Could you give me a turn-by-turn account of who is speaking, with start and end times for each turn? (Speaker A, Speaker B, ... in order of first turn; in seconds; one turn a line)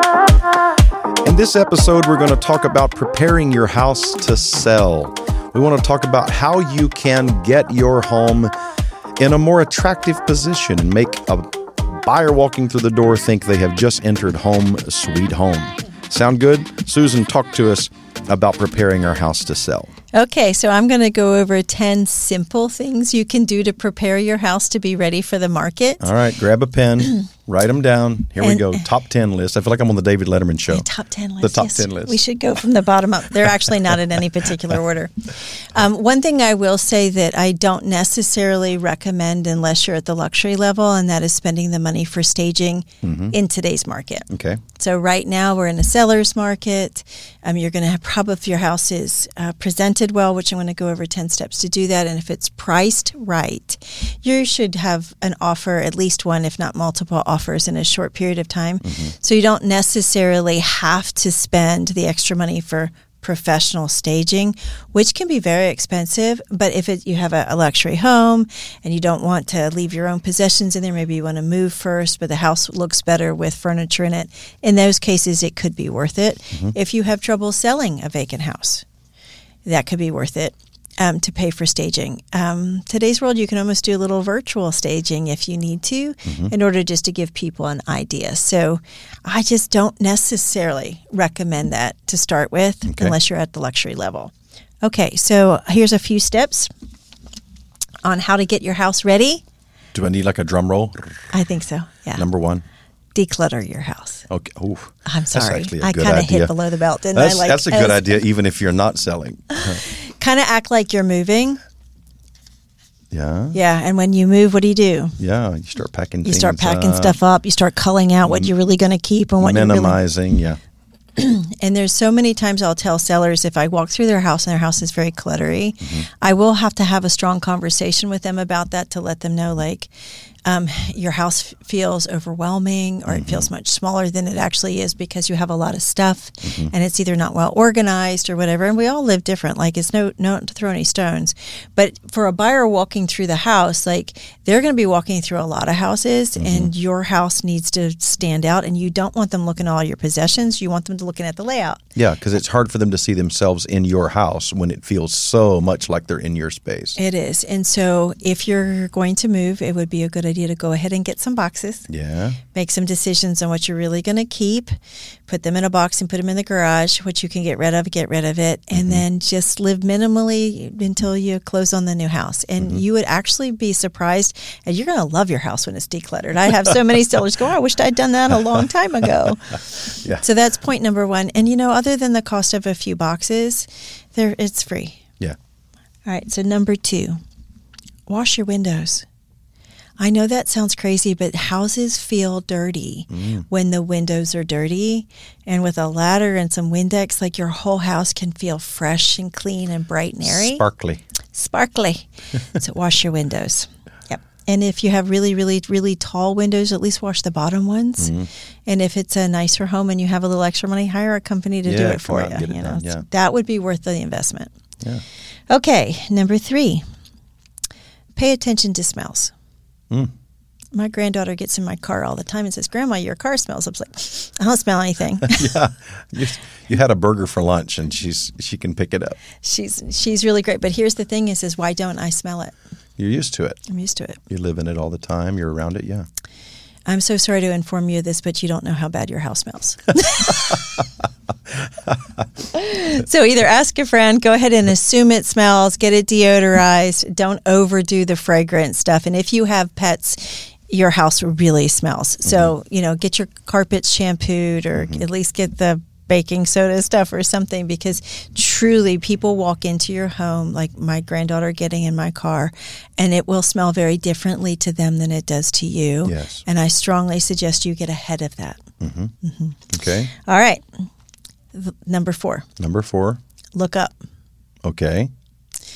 Speaker A: 1.2-8.5
Speaker A: 9.2-19.9
Speaker B: 20.1-26.1
Speaker A: 26.0-30.9
Speaker B: 28.4-28.8
Speaker B: 30.7-78.8
Speaker A: 31.4-32.2
Speaker A: 43.0-43.3
Speaker A: 44.3-44.6
Speaker A: 58.8-59.1
Speaker B: 79.7-94.3
Speaker A: 86.2-86.5
Speaker A: 92.9-93.2
Speaker B: 94.8-96.7
Speaker B: 98.0-99.4
Speaker A: 99.9-101.3
Speaker B: 101.3-102.2
Speaker A: 102.2-102.6
Speaker B: 103.1-104.2
Speaker A: 104.3-106.5
Speaker B: 105.0-108.2
Speaker A: 107.1-109.8
Speaker B: 109.5-111.6
Speaker A: 113.1-113.6
Speaker B: 113.5-115.2
Speaker A: 115.2-117.2
Speaker B: 116.2-120.0
Speaker A: 119.4-120.6
Speaker B: 121.2-129.9
Speaker B: 130.4-151.8
Speaker A: 133.1-133.5
Speaker A: 136.5-136.7
Speaker A: 146.4-146.7
Speaker A: 152.0-157.0
Speaker B: 157.0-161.9
Speaker A: 161.9-162.4
Speaker B: 162.5-164.7
Speaker B: 165.3-185.0
Speaker A: 168.8-169.0
Speaker B: 186.1-187.2
Speaker B: 188.1-189.1
Speaker B: 190.0-200.6
Speaker A: 193.1-193.4
Speaker A: 200.2-201.0
Speaker B: 201.3-208.1
Speaker A: 208.0-208.3
Speaker B: 208.7-214.5
Speaker A: 211.6-213.0
Speaker B: 215.5-216.8
Speaker B: 218.2-219.3
Speaker B: 220.7-225.5
Speaker A: 225.3-229.2
Speaker B: 229.4-232.5
Speaker A: 233.0-233.6
Speaker B: 233.7-234.2
Speaker A: 234.3-236.1
Speaker B: 236.8-240.7
Speaker B: 242.5-268.6
Speaker A: 252.3-252.5
Speaker A: 254.7-255.0
Speaker A: 266.0-266.4
Speaker A: 268.8-269.1
Speaker B: 269.2-269.6
Speaker A: 269.7-270.1
Speaker B: 270.1-270.6
Speaker B: 271.5-272.5
Speaker A: 272.6-273.2
Speaker B: 273.5-274.0
Speaker A: 274.6-275.1